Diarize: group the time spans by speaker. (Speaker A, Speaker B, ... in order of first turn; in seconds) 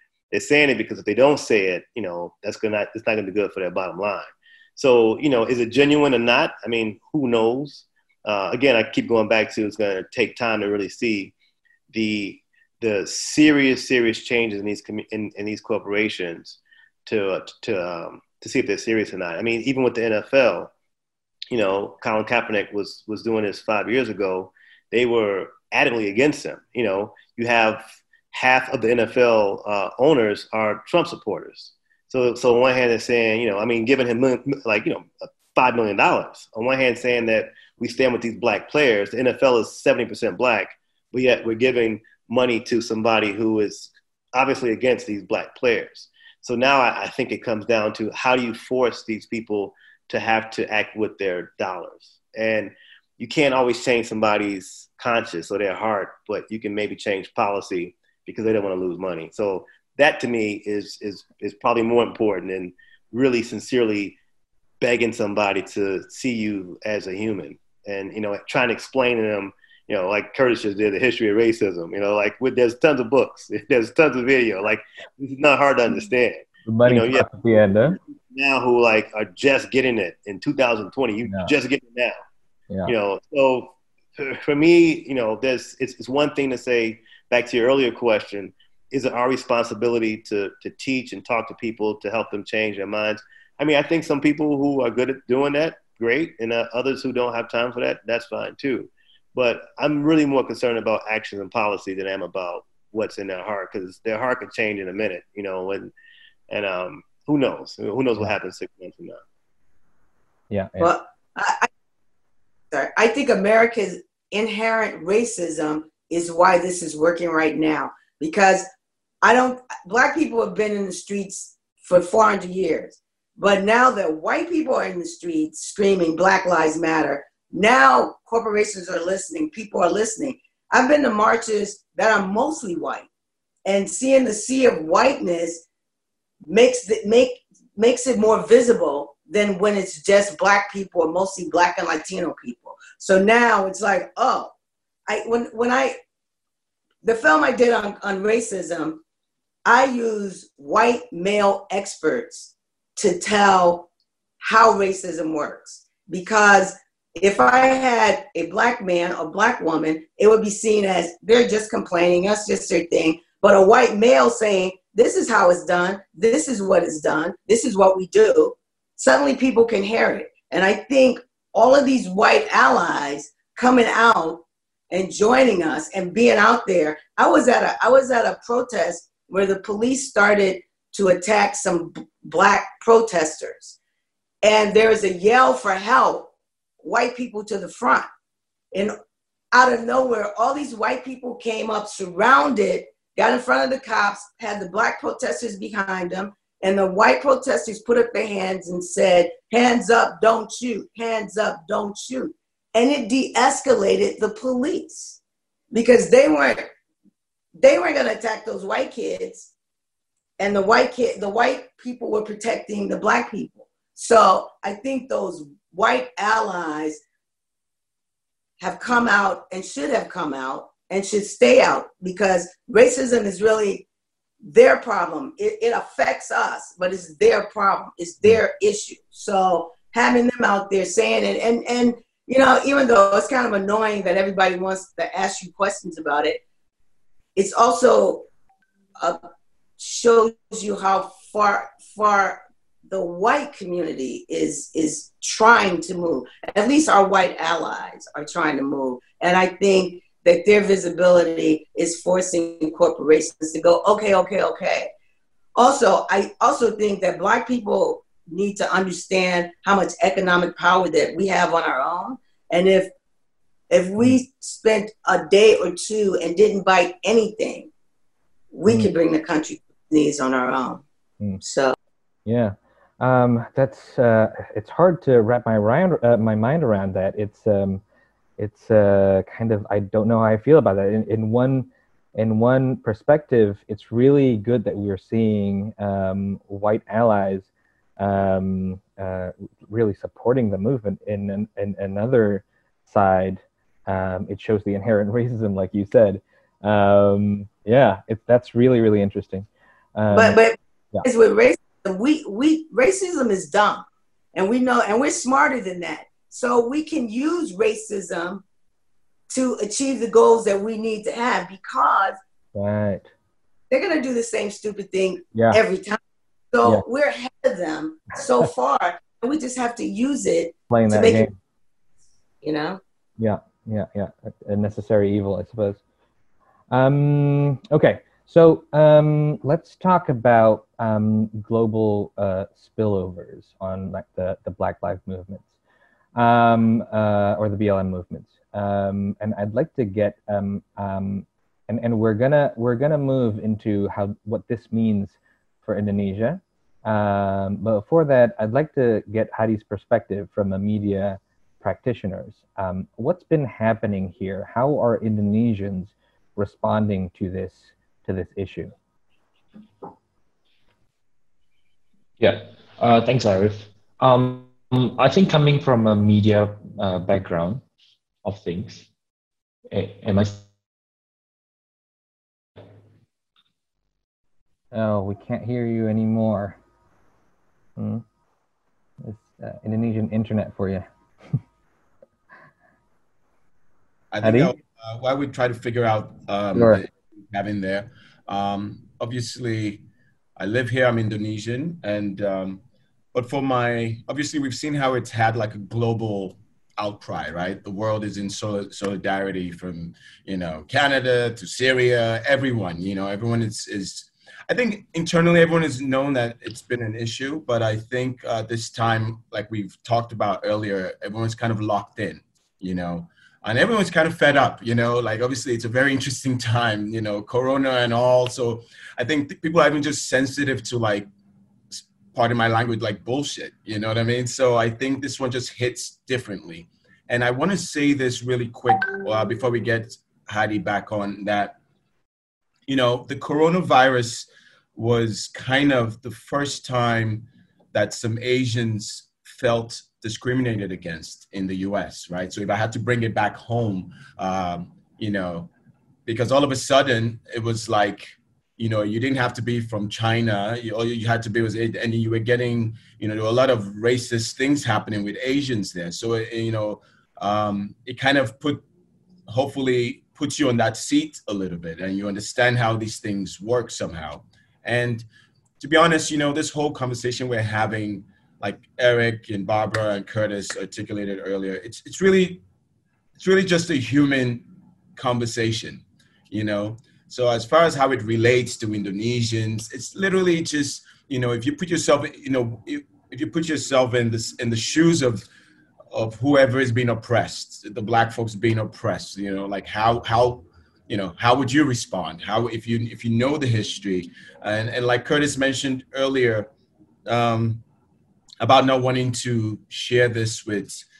Speaker A: 0.3-11.3, 11.9-20.7, 21.5-64.2, 64.8-77.3, 77.9-82.1, 82.8-105.9, 106.5-109.2
Speaker B: 76.7-78.0, 81.2-81.5, 110.5-110.9, 268.6-268.9, 272.2-277.8, 278.4-287.5, 288.0-300.4, 312.5-313.1, 315.3-315.6, 320.7-321.3, 323.2-325.8, 326.7-335.5, 336.1-358.7, 374.7-376.6, 377.8-378.0, 379.0-381.3, 384.2-384.5, 386.5-386.8
Speaker C: 110.8-111.7, 112.7-118.7, 119.2-133.1, 133.6-135.6, 136.4-144.5, 145.1-146.0, 147.0-149.0, 149.6-153.9, 154.4-183.7, 184.4-186.3, 186.8-188.1, 189.5-205.2, 205.7-206.7, 207.6-209.5, 210.4-217.0, 218.6-223.8, 224.4-236.4, 237.3-238.3, 239.8-242.4, 242.9-254.9, 255.6-262.9, 263.7-267.7, 268.5-270.8, 271.4-271.7, 300.1-308.4, 309.3-312.2, 313.7-316.0, 316.5-321.3, 322.4-322.8
Speaker D: 362.2-367.6, 368.2-368.9, 369.7-370.5
Speaker E: 384.1-389.8, 390.4-392.6, 393.1-421.1, 421.7-431.6, 432.7-445.5, 446.1-458.6, 459.3-465.1, 465.6-472.4, 473.2-474.4, 474.9-485.2, 485.9-496.5, 497.1-497.6, 498.4-500.8